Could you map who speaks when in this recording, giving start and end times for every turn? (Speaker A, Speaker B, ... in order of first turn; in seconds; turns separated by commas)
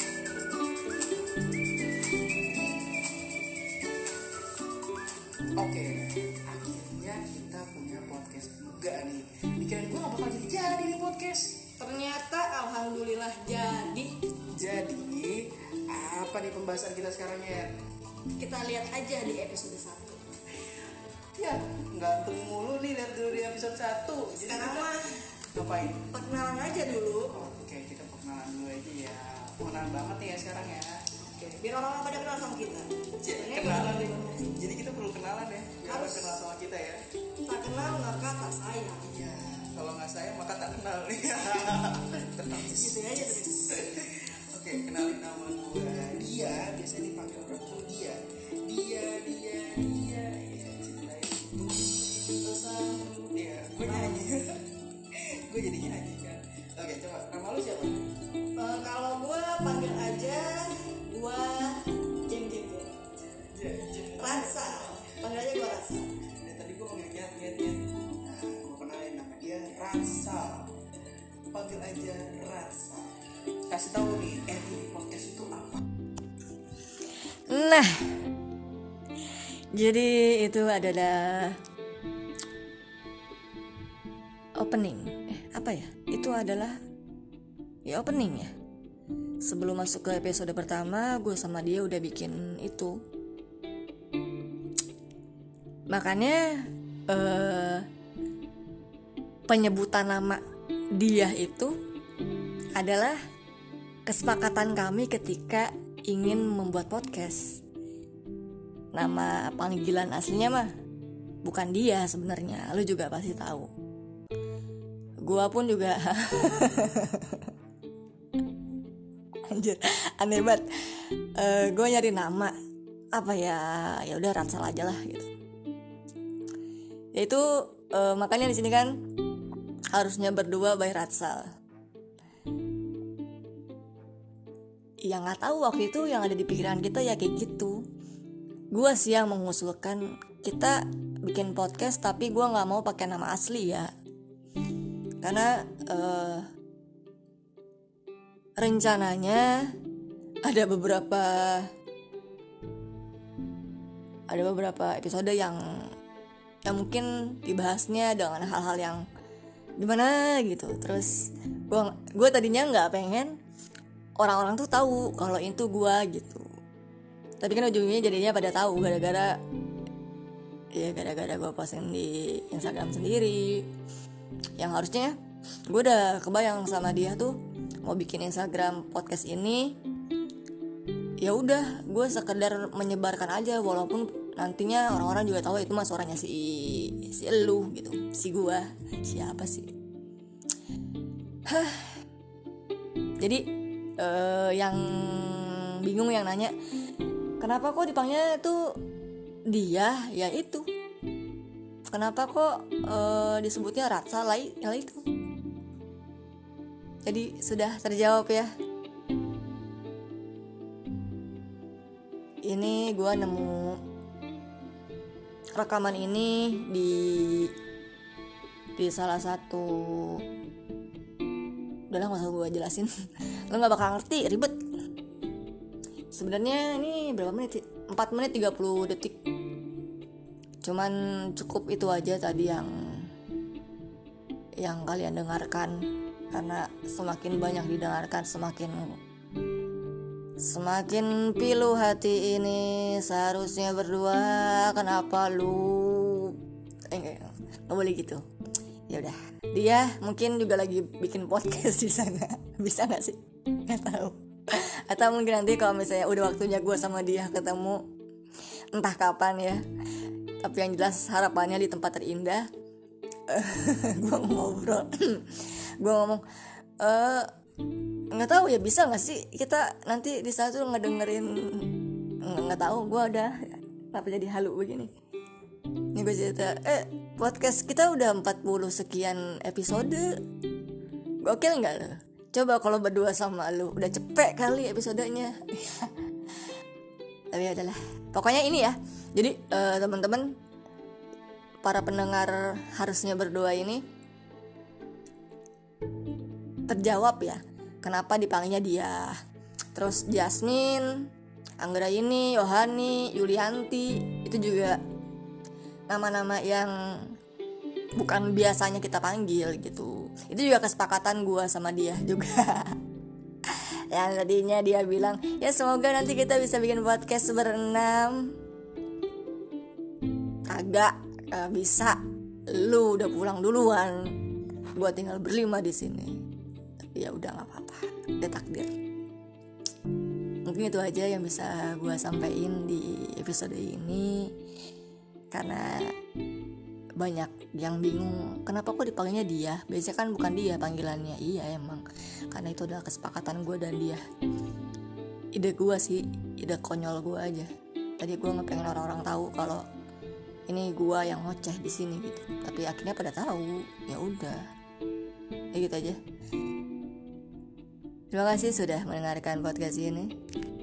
Speaker A: 5.6-11.7, Speaker B: 11.8-14.1, Speaker A: 14.6-17.7, Speaker B: 18.4-20.2, Speaker A: 21.4-26.1, Speaker B: 24.5-25.1, Speaker B: 26.1-27.3, Speaker A: 27.3-31.1, Speaker B: 31.3-34.5, Speaker A: 33.2-37.0, Speaker B: 35.8-36.4, Speaker B: 37.5-39.1, Speaker A: 39.1-52.0, Speaker B: 42.8-43.9, Speaker B: 52.4-53.0, Speaker A: 53.2-58.1, Speaker B: 58.6-62.9, Speaker A: 63.4-65.2, Speaker B: 64.2-66.0, Speaker A: 66.4-70.8, Speaker A: 71.5-73.1, Speaker A: 73.7-75.8, Speaker C: 77.5-78.2, Speaker C: 79.7-81.6, Speaker C: 84.6-86.8, Speaker C: 87.8-88.5, Speaker C: 89.4-93.0, Speaker C: 95.9-97.9, Speaker C: 99.5-100.4, Speaker C: 101.0-101.7, Speaker C: 102.8-103.2, Speaker C: 104.1-107.6, Speaker C: 108.9-110.7, Speaker C: 111.4-113.7, Speaker C: 115.2-117.5, Speaker C: 119.5-122.5, Speaker C: 123.2-125.3, Speaker C: 127.2-129.0, Speaker C: 129.9-131.5, Speaker C: 135.1-137.8, Speaker C: 138.7-143.9, Speaker C: 145.2-146.5, Speaker C: 148.6-149.7, Speaker C: 150.4-151.7, Speaker C: 154.3-155.6, Speaker C: 156.7-159.0, Speaker C: 159.8-163.3, Speaker C: 164.2-166.5, Speaker C: 167.4-169.4, Speaker C: 170.8-173.7, Speaker C: 174.6-175.2, Speaker C: 175.7-179.8, Speaker C: 181.2-189.7, Speaker C: 191.5-192.0, Speaker C: 193.2-193.5, Speaker C: 194.0-196.6, Speaker C: 197.4-198.8, Speaker C: 199.5-200.7, Speaker C: 201.9-205.1, Speaker C: 207.1-208.5, Speaker C: 212.5-213.8, Speaker C: 215.6-217.5, Speaker C: 218.8-220.2, Speaker C: 221.9-222.9, Speaker C: 223.5-224.6, Speaker C: 226.2-229.2, Speaker C: 230.6-233.1, Speaker C: 234.6-239.0, Speaker C: 240.4-246.4, Speaker C: 246.9-248.2, Speaker C: 248.9-257.8, Speaker C: 258.7-259.6, Speaker C: 260.4-262.5, Speaker C: 263.3-266.2, Speaker C: 266.8-267.3, Speaker C: 268.1-273.3, Speaker C: 273.9-274.9, Speaker C: 275.9-280.1, Speaker C: 281.2-286.0, Speaker C: 287.3-290.3, Speaker C: 291.6-293.8, Speaker C: 296.7-299.2, Speaker C: 299.8-301.1, Speaker C: 301.6-304.8, Speaker C: 305.9-307.2, Speaker C: 308.0-312.8, Speaker C: 313.5-318.4, Speaker C: 320.5-322.0, Speaker C: 322.5-324.1, Speaker C: 324.8-326.2, Speaker C: 326.9-328.7, Speaker C: 330.4-334.3, Speaker C: 335.3-335.9, Speaker C: 337.0-344.0, Speaker C: 345.4-347.5, Speaker C: 348.0-349.6, Speaker C: 350.5-354.4, Speaker C: 355.5-356.0, Speaker C: 358.1-360.1